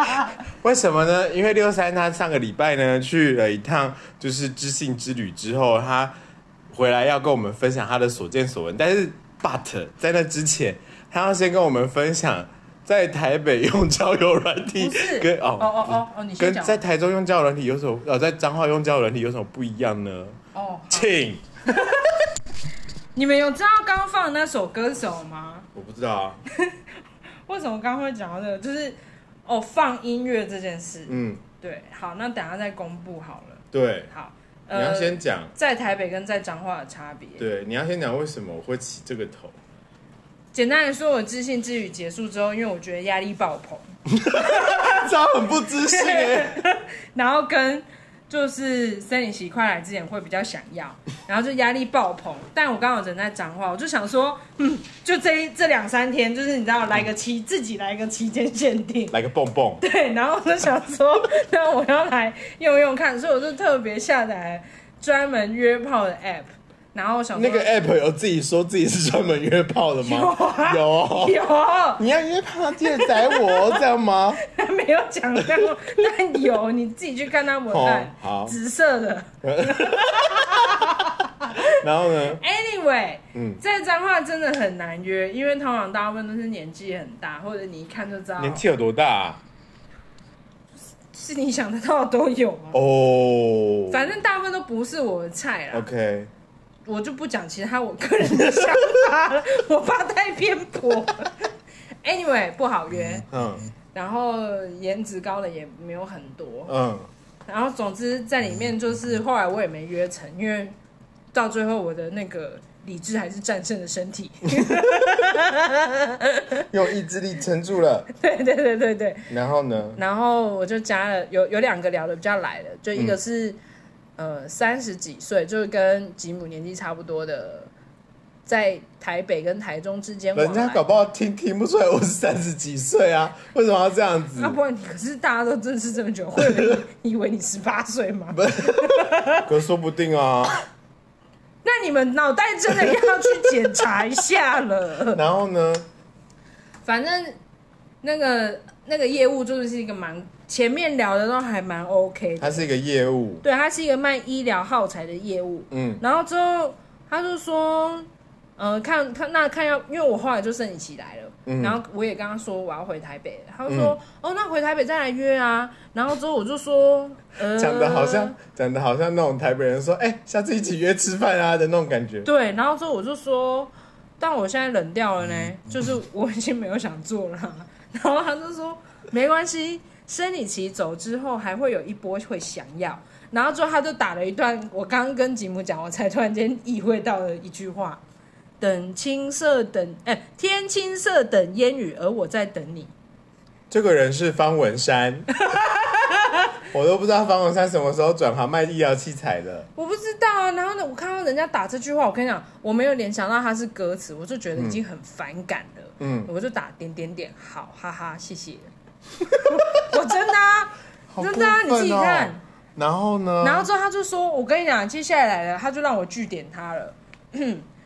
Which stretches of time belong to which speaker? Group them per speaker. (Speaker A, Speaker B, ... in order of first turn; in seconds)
Speaker A: 0.5-6.1, 6.7-20.4, 20.9-21.4, 25.7-26.4, 31.1-31.4, 33.7-34.1, 34.7-35.5, 37.4-39.5, 44.1-46.6, 59.1-59.8, 67.3-71.4, 72.0-74.4, 77.7-78.6, 79.4-80.8, 81.7-82.4, 83.3-83.6, 88.4-89.4, 92.7-94.1, 95.7-96.3, 103.3-103.6, 106.7-107.1, 116.7-118.1, 119.3-120.0, 130.3-134.6, 136.4-136.7, 138.3-140.6, 142.9-143.5, 145.1-145.8, 152.4-153.4, 155.7-156.0, 161.4-161.8, 163.7-163.9, 167.4-172.3, 193.7-195.3, 196.6-199.7, 204.6-204.8, 206.0-206.3, 211.1-213.7
Speaker B: 14.8-16.8, 20.5-21.1, 21.8-22.0, 23.1-25.7, 27.4-37.4, 40.5-45.0, 45.8-59.1, 59.8-67.8, 70.0-72.0, 72.8-73.8, 74.4-81.6, 82.3-88.6, 91.1-92.8, 93.9-95.9, 96.8-101.5, 102.0-103.3, 103.9-106.7, 107.5-110.8, 111.3-116.6, 118.1-119.3, 119.9-123.6, 124.2-127.7, 128.4-130.8, 134.3-139.5, 141.6-145.2, 146.8-147.4, 148.0-152.7, 153.4-168.3, 172.2-188.0, 188.6-192.9, 195.5-196.3, 199.8-208.7, 209.4-212.4, 213.4-217.7